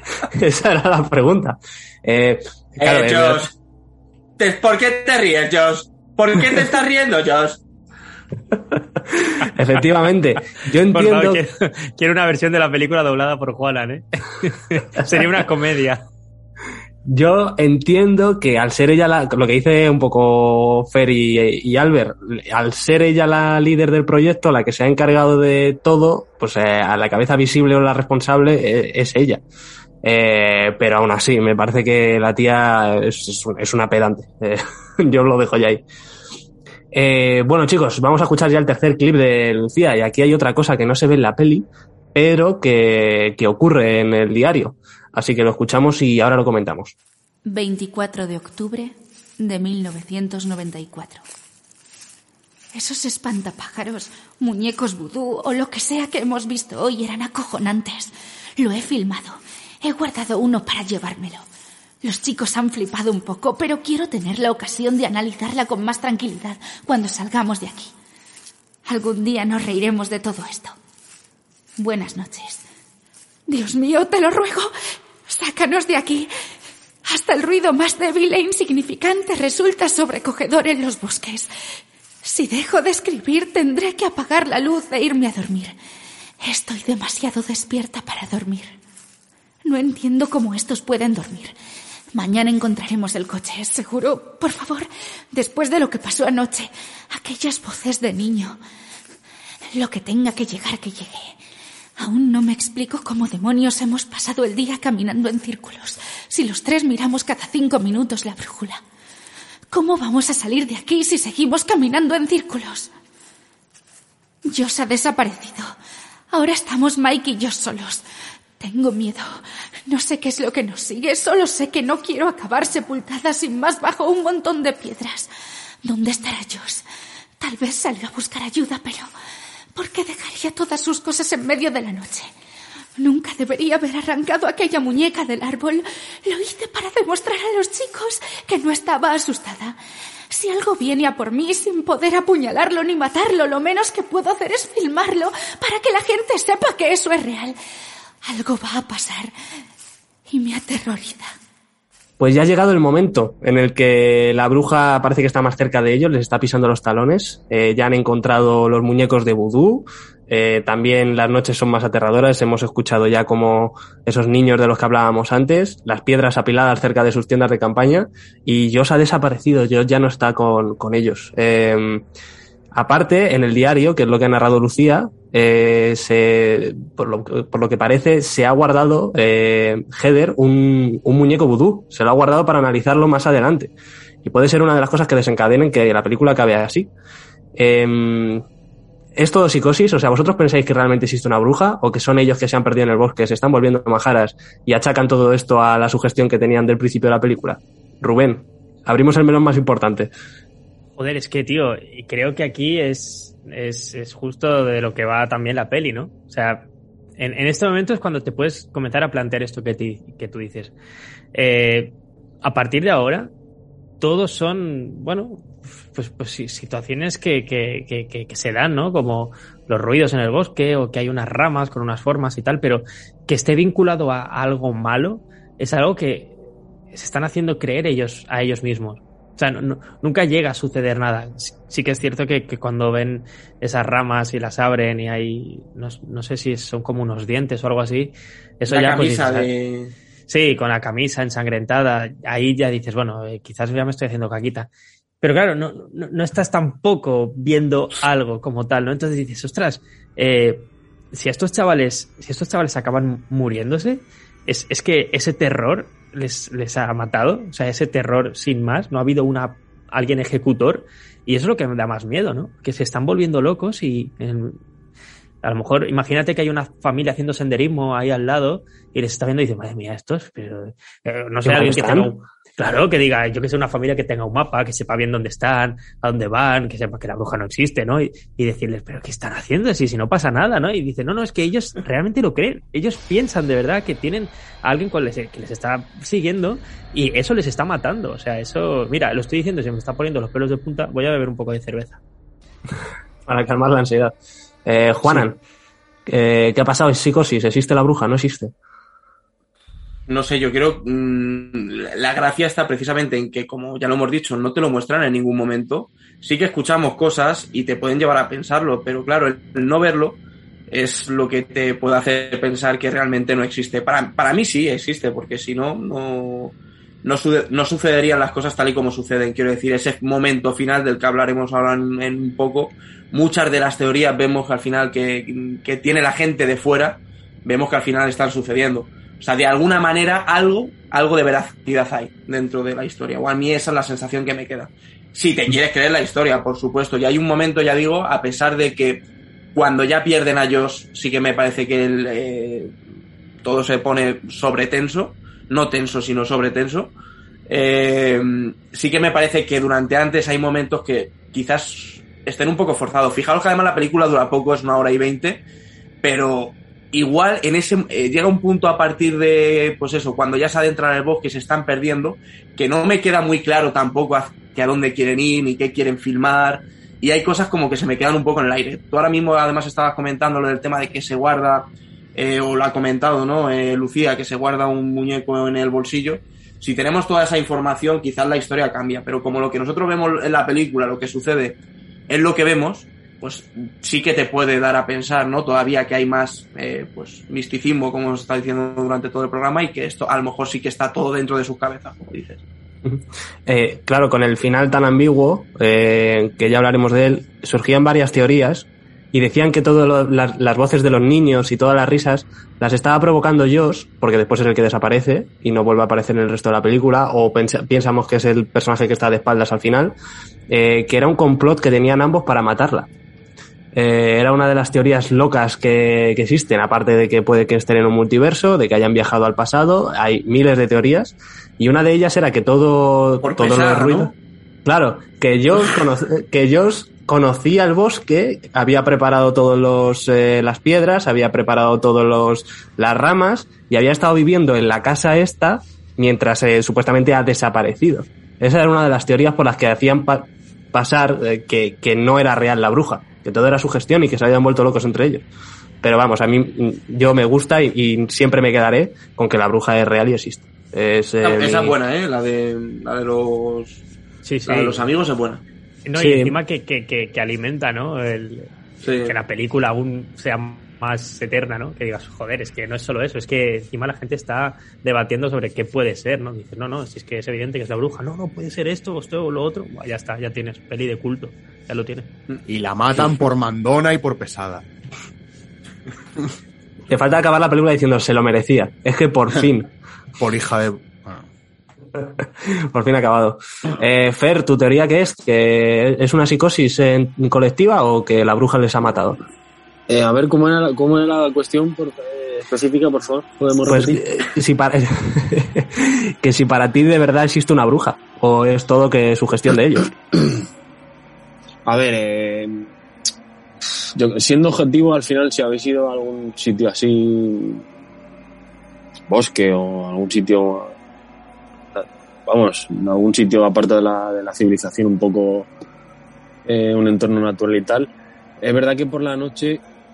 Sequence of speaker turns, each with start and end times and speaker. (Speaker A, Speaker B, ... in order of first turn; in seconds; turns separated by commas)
Speaker A: 0.2-3.5, Speaker B: 2.8-3.5, Speaker B: 4.4-7.6, Speaker A: 8.7-11.4, Speaker C: 10.9-16.1, Speaker A: 17.1-29.4, Speaker A: 30.0-35.8, Speaker A: 36.9-46.9, Speaker D: 47.5-51.2, Speaker D: 52.7-61.5, Speaker D: 62.0-67.9, Speaker D: 68.9-70.8, Speaker D: 71.8-72.6, Speaker D: 73.5-74.7, Speaker D: 75.2-76.3, Speaker D: 77.1-81.5, Speaker D: 82.2-85.8, Speaker D: 86.4-88.8, Speaker D: 89.7-91.5, Speaker D: 92.2-98.6, Speaker D: 99.8-101.4, Speaker D: 102.0-108.8, Speaker D: 109.7-112.9, Speaker D: 114.5-115.7, Speaker D: 116.3-118.0, Speaker D: 118.6-125.3, Speaker D: 125.8-126.8, Speaker D: 127.4-129.1, Speaker D: 129.8-132.3, Speaker D: 133.0-139.8, Speaker D: 140.3-147.6, Speaker D: 148.3-149.3, Speaker D: 150.3-151.3, Speaker A: 152.2-172.1, Speaker A: 172.7-183.7, Speaker A: 184.2-186.9, Speaker A: 187.6-188.4, Speaker A: 189.2-200.1, Speaker C: 201.0-210.7, Speaker C: 211.3-213.3, Speaker C: 214.0-226.4, Speaker C: 226.9-239.5, Speaker B: 238.7-239.9, Speaker C: 240.3-244.7, Speaker C: 245.2-264.6, Speaker C: 265.4-292.0, Speaker A: 271.4-272.1, Speaker A: 293.3-295.4, Speaker A: 296.1-298.5, Speaker B: 300.1-339.0, Speaker B: 339.6-342.7, Speaker B: 343.4-346.9, Speaker B: 347.5-355.4, Speaker B: 356.0-392.4, Speaker A: 392.8-409.9, Speaker A: 410.5-412.9, Speaker A: 413.7-424.1, Speaker B: 423.2-424.1, Speaker A: 424.6-445.2, Speaker A: 445.8-451.8, Speaker B: 451.2-453.8, Speaker C: 454.2-454.9, Speaker B: 454.5-455.4, Speaker C: 455.9-472.1, Speaker A: 456.0-456.4, Speaker B: 458.8-459.1, Speaker E: 472.5-474.7, Speaker A: 476.9-479.7, Speaker E: 480.2-481.3, Speaker A: 481.9-489.2, Speaker F: 489.9-494.0, Speaker A: 493.7-499.9, Speaker F: 501.7-502.7, Speaker F: 503.9-507.6, Speaker F: 509.1-510.8, Speaker F: 511.7-515.5, Speaker F: 516.5-519.6